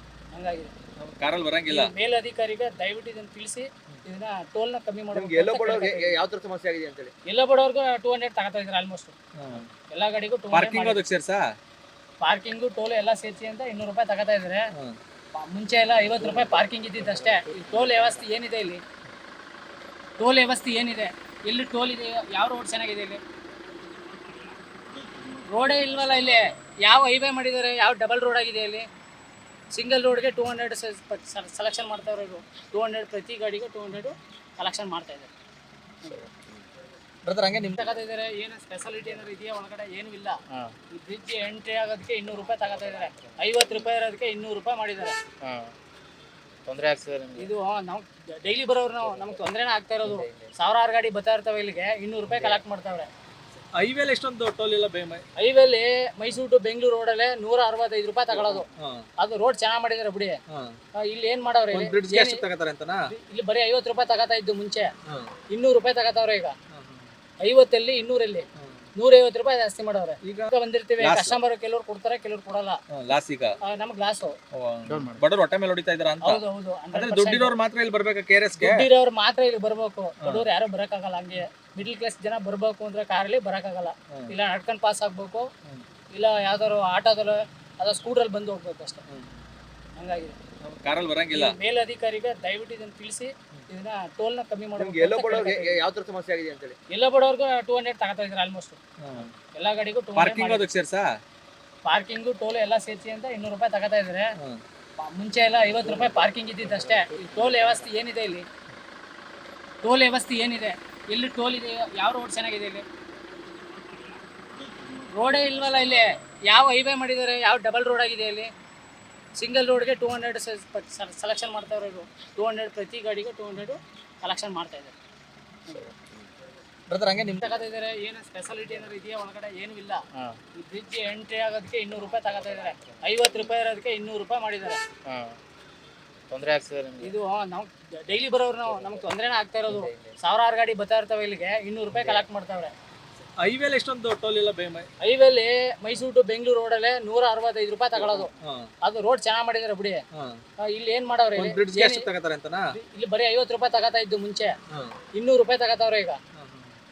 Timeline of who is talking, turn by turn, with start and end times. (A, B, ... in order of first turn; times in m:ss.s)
0:00.3-0:00.7 A
0:01.0-0:01.9 B
0:01.7-0:06.2 A
0:05.1-0:07.1 C
0:07.3-0:09.2 A
0:09.4-0:09.7 B
0:09.9-0:11.0 A
0:10.5-0:11.4 B
0:12.2-0:14.7 A
0:15.3-0:18.8 A
0:17.3-0:18.0 D
0:20.2-0:23.2 A
0:25.3-0:28.8 A
0:29.7-0:35.3 A
0:37.2-0:38.0 B
0:37.8-0:40.4 A
0:40.9-0:45.2 A
0:42.6-0:43.4 D
0:45.4-0:45.7 D
0:46.7-0:47.5 D
0:47.4-0:53.1 A
0:50.0-0:50.5 D
0:53.8-0:55.2 B
0:55.4-0:58.7 A
0:58.8-0:59.0 B
0:59.2-1:00.4 A
1:00.5-1:00.8 B
1:01.0-1:02.4 A
1:01.7-1:03.0 B
1:03.1-1:04.9 A
1:05.5-1:06.6 A
1:06.7-1:07.1 B
1:07.4-1:12.8 A
1:08.6-1:08.9 B
1:10.2-1:11.4 B
1:12.9-1:13.6 B
1:13.6-1:14.3 A
1:14.6-1:18.8 B
1:14.9-1:15.2 D
1:16.2-1:17.5 A
1:18.6-1:25.5 A
1:26.1-1:29.0 A
1:29.1-1:29.4 B
1:30.0-1:30.4 A
1:30.6-1:31.6 B
1:31.3-1:35.8 A
1:34.8-1:36.8 C
1:36.9-1:38.8 A
1:39.0-1:39.3 B
1:39.5-1:40.6 A
1:40.2-1:41.1 B
1:41.9-1:44.3 A
1:45.0-1:48.4 A
1:49.8-1:52.8 A
1:55.0-1:58.5 A
1:59.4-2:05.0 A
2:06.9-2:07.6 B
2:07.4-2:10.0 A
2:10.6-2:14.8 A
2:12.2-2:13.1 D
2:15.1-2:15.4 D
2:16.3-2:17.2 D
2:17.0-2:22.7 A
2:19.7-2:20.2 D
2:23.4-2:24.9 B
2:25.0-2:28.3 A
2:28.2-2:28.7 B
2:28.8-2:30.0 A
2:30.6-2:32.1 A
2:31.4-2:32.6 B
2:32.7-2:34.5 A
2:35.1-2:36.2 A
2:36.4-2:36.8 B